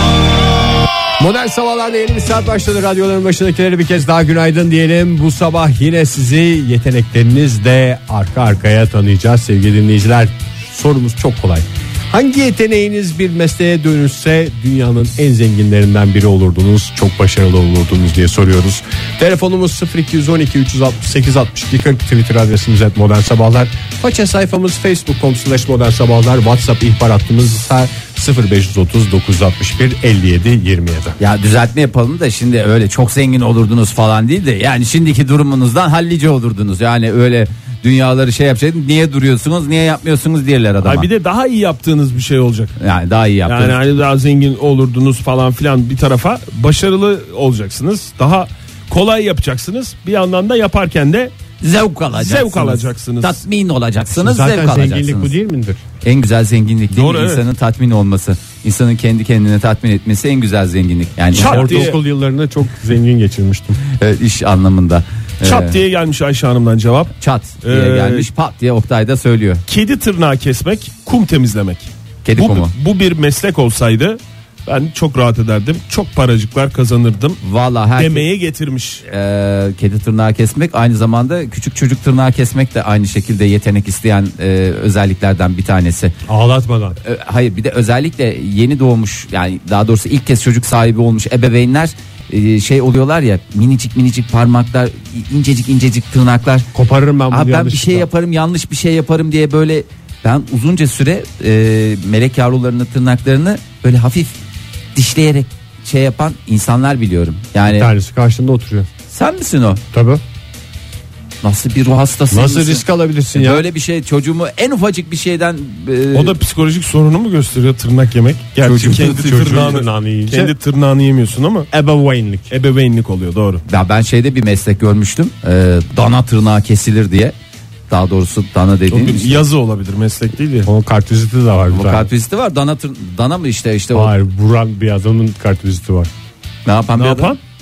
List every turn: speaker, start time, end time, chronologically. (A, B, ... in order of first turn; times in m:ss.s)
0:01.2-0:31.2 A
0:31.2-0:41.1 B
0:40.8-0:42.8 C
0:42.8-0:43.8 B
0:43.4-0:51.3 C
0:51.6-0:55.3 B
0:52.1-0:53.4 C
0:54.1-0:55.8 A
0:56.0-1:01.9 B
0:56.9-0:57.4 C
1:01.3-1:02.0 C
1:01.3-1:03.8 A
1:04.0-1:05.8 B
1:05.4-1:08.3 C
1:07.2-1:09.6 B
1:09.7-1:17.4 C
1:12.2-1:12.7 B
1:17.4-1:18.2 B
1:18.0-1:19.0 C
1:19.0-1:26.1 B
1:26.3-1:27.0 A
1:27.0-1:36.7 B
1:36.7-1:38.1 A
1:37.3-1:44.4 B
1:44.9-1:47.9 B
1:47.7-1:48.9 A
1:49.1-1:49.8 B
1:49.9-1:50.2 A
1:51.4-1:56.3 B
1:52.3-1:53.7 A
1:56.1-2:01.7 C
1:58.6-1:59.5 B
1:58.6-2:00.5 A
2:01.7-2:02.5 A
2:02.5-2:03.6 C
2:03.7-2:07.3 B
2:07.9-2:09.4 B
2:08.9-2:10.7 C
2:10.6-2:12.1 A
2:11.7-2:14.1 B
2:13.9-2:16.1 A
2:16.6-2:17.4 B
2:17.0-2:17.4 C